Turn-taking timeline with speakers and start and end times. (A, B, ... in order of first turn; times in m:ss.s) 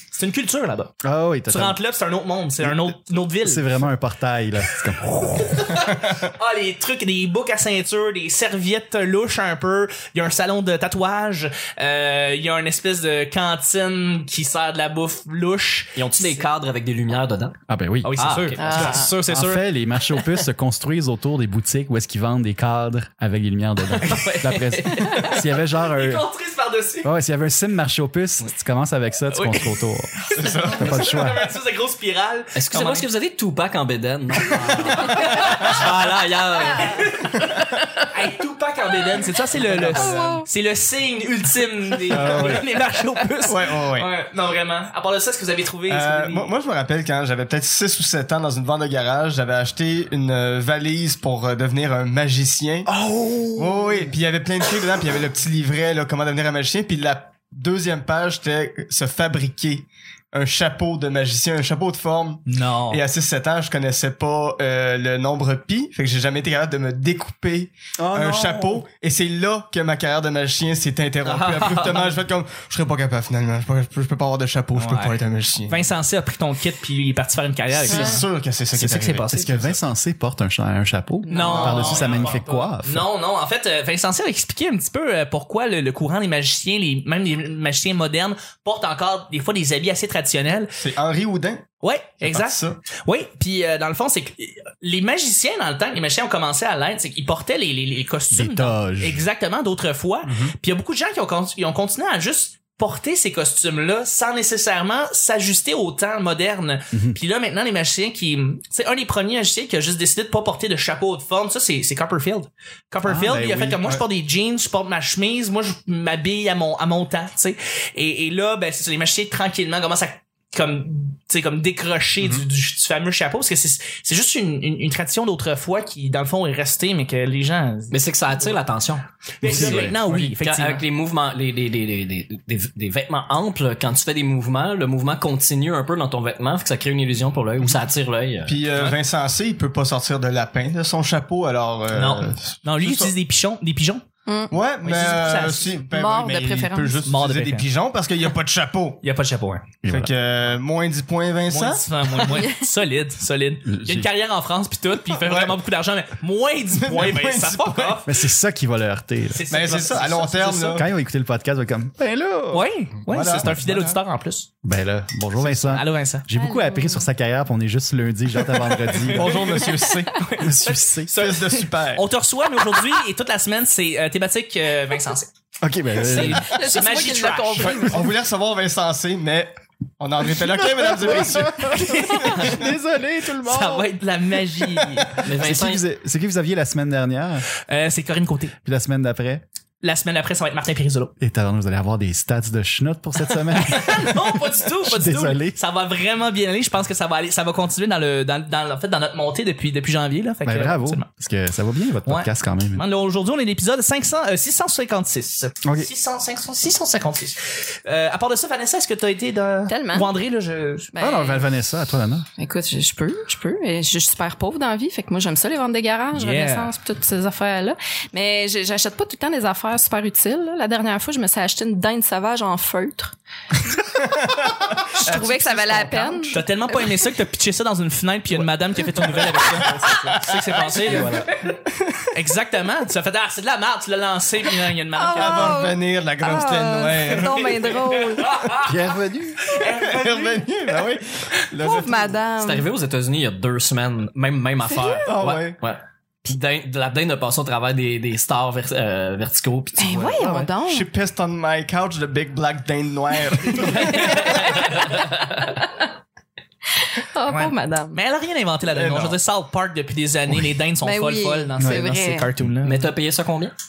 0:00.1-0:00.9 A
0:01.0-0:01.8 B
0:01.5-0:03.9 A
0:02.6-0:02.9 B
0:03.4-0:05.6 B
0:04.8-0:16.4 A
0:16.0-0:17.6 C
0:17.7-0:18.1 B
0:18.0-0:19.7 A
0:18.2-0:19.1 C
0:18.6-0:19.1 D
0:19.2-0:26.2 B
0:24.0-0:27.1 A
0:27.0-0:30.2 B
0:29.3-0:33.1 A
0:30.3-0:31.1 E
0:30.7-0:31.5 B
0:32.5-0:37.2 C
0:34.5-0:36.0 A
0:36.8-0:46.5 A
0:39.6-0:40.4 E
0:40.0-0:40.4 D
0:42.1-0:42.6 E
0:43.4-0:44.1 E
0:45.9-0:52.9 E
0:52.9-0:54.1 B
0:53.6-1:15.9 E
1:02.5-1:03.0 A
1:08.0-1:08.8 B
1:11.2-1:12.2 C
1:14.7-1:19.4 A
1:17.8-1:19.8 E
1:17.9-1:18.2 D
1:19.3-1:23.0 B
1:21.2-1:22.0 D
1:21.3-1:30.8 A
1:21.6-1:22.3 E
1:30.7-1:31.7 E
1:31.8-2:08.5 A
1:32.2-1:32.8 E
1:38.3-1:39.2 B
1:40.2-1:40.5 E
1:46.9-1:47.2 B
1:53.0-1:53.9 B
2:07.9-2:18.7 C
2:09.4-2:10.8 A
2:09.4-2:10.0 B
2:18.4-2:23.1 E
2:21.9-2:24.0 A
2:24.2-2:24.5 D
2:24.5-2:29.0 E
2:24.8-2:25.7 A
2:25.9-2:27.0 D
2:27.0-2:27.7 A
2:29.0-2:29.7 A
2:29.8-2:30.1 B
2:29.8-2:31.9 E
2:31.5-2:38.1 A
2:32.3-2:32.6 D
2:33.6-2:34.1 B
2:35.1-2:35.6 E
2:36.7-2:38.0 E
2:38.0-2:39.4 B
2:39.3-2:40.9 A
2:39.5-2:40.9 E
2:40.7-2:42.6 B
2:42.5-2:44.5 A
2:43.0-2:44.0 E
2:44.6-2:49.6 B
2:45.4-2:46.3 A
2:46.3-2:47.1 D
2:48.9-2:55.3 A
2:49.0-2:50.1 E
2:50.4-2:51.2 B
2:51.1-2:52.1 E
2:55.6-2:56.6 B
2:56.0-2:58.0 A
2:56.1-2:58.1 D
2:57.6-3:02.6 E
3:00.4-3:04.0 B
3:01.6-3:02.6 A
3:03.4-3:05.2 A
3:05.2-3:05.8 C
3:05.3-3:07.4 B
3:07.7-3:08.5 A
3:08.6-3:09.4 B
3:09.8-3:11.1 A
3:11.2-3:15.6 B
3:13.5-3:21.1 A
3:20.4-3:22.8 B
3:22.0-3:30.9 A
3:25.6-3:25.9 B
3:29.7-3:30.1 D
3:30.9-3:31.4 D
3:31.0-3:32.2 B
3:32.4-3:43.2 D
3:36.1-3:36.7 A
3:44.1-3:44.4 E
3:45.0-3:47.1 D
3:45.0-3:46.3 E
3:46.3-3:51.2 A
3:50.5-3:51.1 E
3:50.8-3:51.3 B
3:51.6-3:52.1 E
3:52.1-3:55.6 A
3:55.0-3:58.5 D
3:55.2-3:57.7 E
3:57.1-3:58.8 A
3:58.6-3:59.6 B
3:59.5-4:00.8 A
3:59.6-4:02.2 E
4:01.6-4:02.6 D
4:02.4-4:10.3 C
4:04.7-4:05.1 D
4:05.0-4:05.6 E
4:09.8-4:10.9 D
4:10.5-4:14.6 E
4:13.6-4:14.7 A
4:13.9-4:14.8 D
4:16.7-4:18.0 D
4:17.3-4:22.9 A
4:18.7-4:19.2 E
4:20.8-4:22.3 D
4:21.6-4:21.8 B
4:22.6-4:23.5 C